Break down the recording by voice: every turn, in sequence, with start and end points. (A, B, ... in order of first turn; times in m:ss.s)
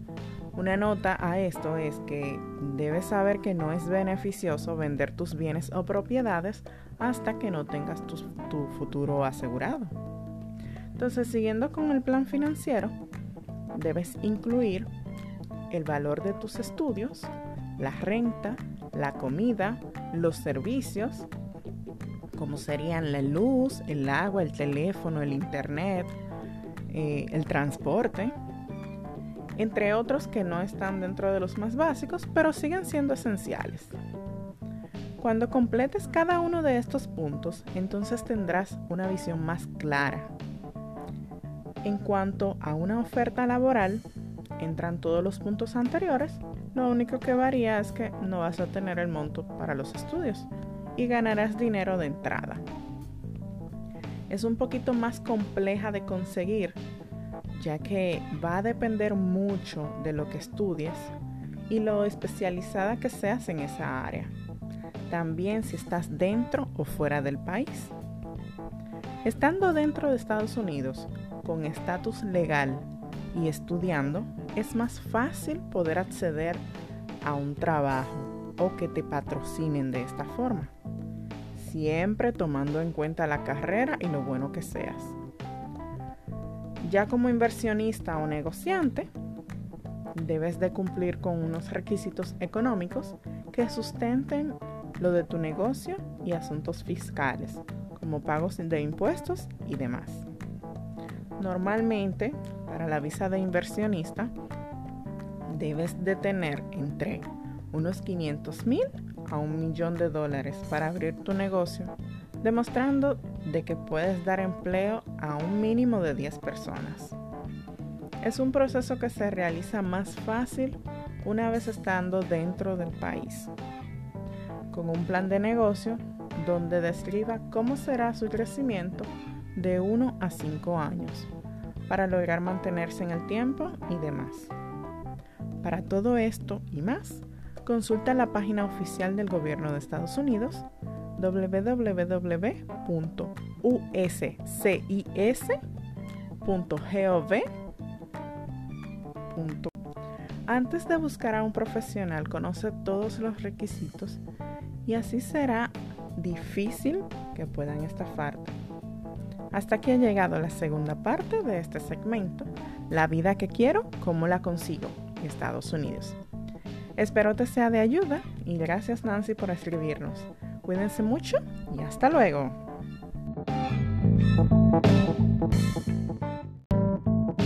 0:00.5-0:09.9 A
0:10.9-0:13.0 A
0:13.7-0:14.9 A
0:15.7-0:21.3 A
0:22.3-0:26.2 A
0:26.9-0:28.3 A
0:29.6-0:34.0 A
0:35.2-0:40.3 A
0:41.8-0:44.0 A
0:44.6-0:52.6 A
0:54.3-0:56.8 A
0:57.6-1:01.1 A
1:01.7-1:04.3 A
1:05.1-1:07.9 A
1:09.2-1:16.6 A
1:17.2-1:20.7 A
1:21.5-1:25.2 A
1:26.8-1:29.1 A
1:30.1-1:40.3 A
1:41.4-1:44.3 A
1:45.5-1:57.2 A
1:58.2-2:03.5 A
2:04.7-2:11.3 A
2:11.9-2:14.5 A
2:15.6-2:20.6 A
2:21.2-2:25.6 A
2:26.4-2:27.5 A
2:29.3-2:29.7 A
2:30.5-2:34.2 A
2:34.8-2:38.6 A
2:39.5-2:46.2 A
2:47.0-2:52.6 A